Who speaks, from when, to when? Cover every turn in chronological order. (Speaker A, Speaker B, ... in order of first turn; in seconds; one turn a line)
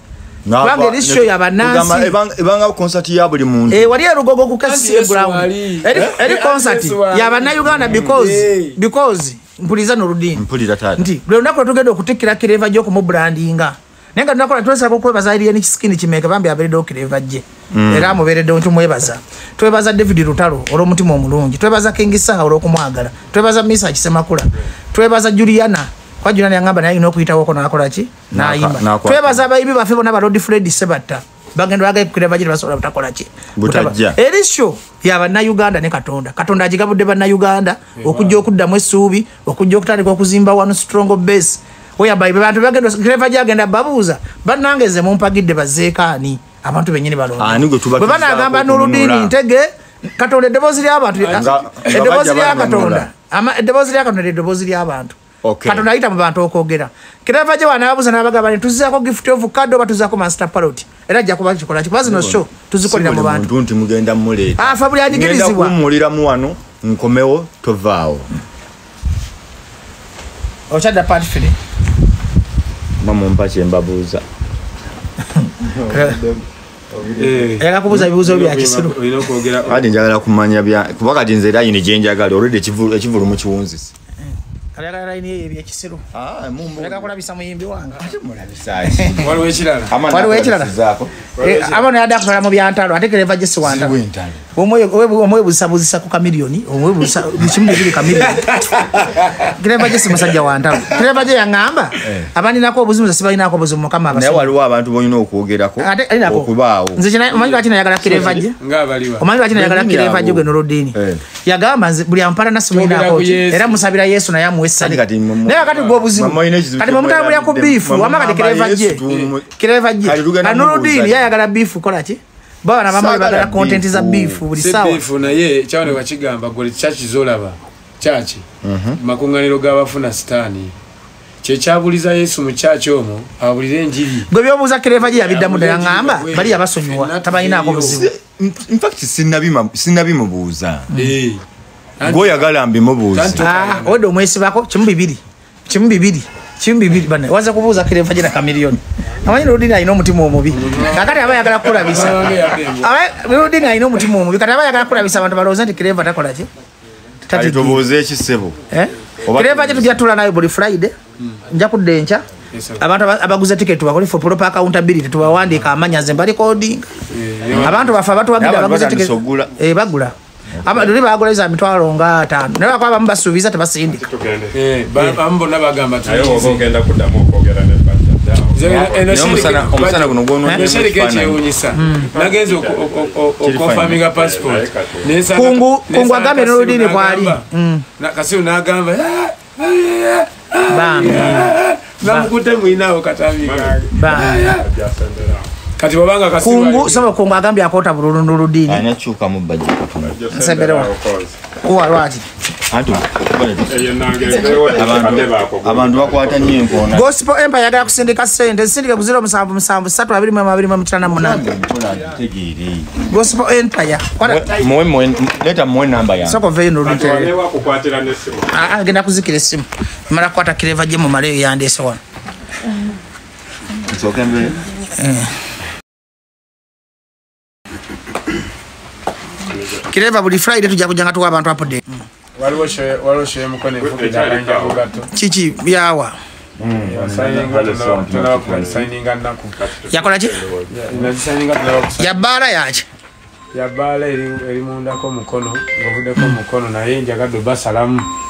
Speaker A: 0.5-4.0
Speaker B: 0.6-2.1
Speaker B: 3.7-10.4
Speaker C: 4.6-8.8
Speaker A: 10.4-11.1
Speaker B: 11.0-63.5
Speaker A: 17.7-18.2
Speaker A: 28.3-29.4
Speaker A: 33.6-34.2
Speaker C: 38.0-38.4
Speaker A: 47.4-49.3
Speaker C: 51.2-52.0
Speaker A: 51.3-53.1
Speaker A: 55.4-55.9
Speaker A: 62.0-68.3
Speaker B: 64.6-65.8
Speaker B: 70.7-71.6
Speaker A: 73.0-74.2
Speaker B: 75.4-76.2
Speaker A: 75.6-77.5
Speaker C: 77.2-79.8
Speaker B: 77.6-79.0
Speaker A: 79.7-83.9
Speaker B: 84.8-86.0
Speaker A: 86.1-87.1
Speaker B: 86.8-88.2
Speaker A: 88.0-89.3
Speaker B: 88.8-89.3
Speaker C: 89.2-90.0
Speaker A: 89.9-91.1
Speaker B: 90.1-90.7
Speaker C: 91.4-91.8
Speaker B: 91.4-94.0
Speaker A: 93.6-94.4
Speaker B: 94.5-98.6
Speaker C: 98.2-99.5
Speaker B: 99.4-104.5
Speaker A: 102.0-102.3
Speaker A: 104.1-107.0
Speaker B: 105.8-108.6
Speaker C: 107.3-109.3
Speaker A: 108.0-108.5
Speaker B: 109.2-125.0
Speaker A: 109.5-111.2
Speaker C: 112.7-113.8
Speaker A: 114.8-119.5
Speaker C: 115.6-116.0
Speaker C: 119.1-119.3
Speaker A: 120.0-121.3
Speaker A: 122.9-124.5
Speaker C: 124.5-128.4
Speaker A: 128.6-129.0
Speaker C: 129.0-130.7
Speaker C: 131.4-134.3
Speaker B: 134.3-138.1
Speaker C: 135.0-138.0
Speaker A: 137.9-140.9
Speaker C: 140.9-141.4
Speaker C: 142.0-142.4
Speaker A: 142.0-143.4
Speaker C: 143.1-144.0
Speaker B: 143.4-156.5
Speaker C: 150.5-152.9
Speaker B: 157.3-157.8
Speaker A: 157.3-158.6
Speaker B: 158.7-160.9
Speaker A: 159.2-160.0
Speaker B: 161.5-162.3
Speaker C: 162.5-162.9
Speaker B: 162.8-166.9
Speaker C: 167.1-168.0
Speaker A: 167.5-167.8
Speaker B: 167.6-174.1
Speaker A: 168.4-169.5
Speaker A: 170.5-170.9
Speaker D: 173.9-174.6
Speaker C: 174.5-176.7
Speaker D: 176.1-179.6
Speaker C: 178.5-187.5
Speaker A: 178.7-181.4
Speaker B: 181.8-182.1
Speaker D: 181.8-183.2
Speaker A: 183.4-184.0
Speaker D: 184.1-185.2
Speaker B: 185.3-187.9
Speaker C: 188.0-194.6
Speaker B: 190.7-192.3
Speaker D: 193.4-195.5
Speaker B: 193.9-194.5
Speaker C: 195.8-197.1
Speaker B: 196.4-198.8
Speaker A: 198.7-200.2
Speaker D: 200.0-201.4
Speaker B: 200.3-200.9
Speaker B: 201.6-202.3
Speaker A: 202.7-203.8
Speaker D: 203.7-206.9
Speaker A: 204.4-207.1
Speaker B: 206.9-211.4
Speaker A: 211.0-213.1
Speaker B: 213.1-214.6
Speaker A: 214.2-216.4
Speaker B: 216.2-217.3
Speaker D: 216.8-218.7
Speaker B: 218.5-222.0
Speaker A: 223.8-224.6
Speaker B: 224.9-225.3
Speaker D: 229.5-229.8
Speaker B: 229.9-231.9
Speaker C: 232.4-235.1
Speaker D: 233.8-234.8
Speaker B: 235.1-236.2
Speaker A: 236.6-238.9
Speaker C: 236.8-239.6
Speaker D: 238.6-238.8
Speaker D: 239.6-240.7
Speaker B: 239.9-240.4
Speaker C: 240.7-242.2
Speaker B: 242.0-242.9
Speaker C: 243.5-248.1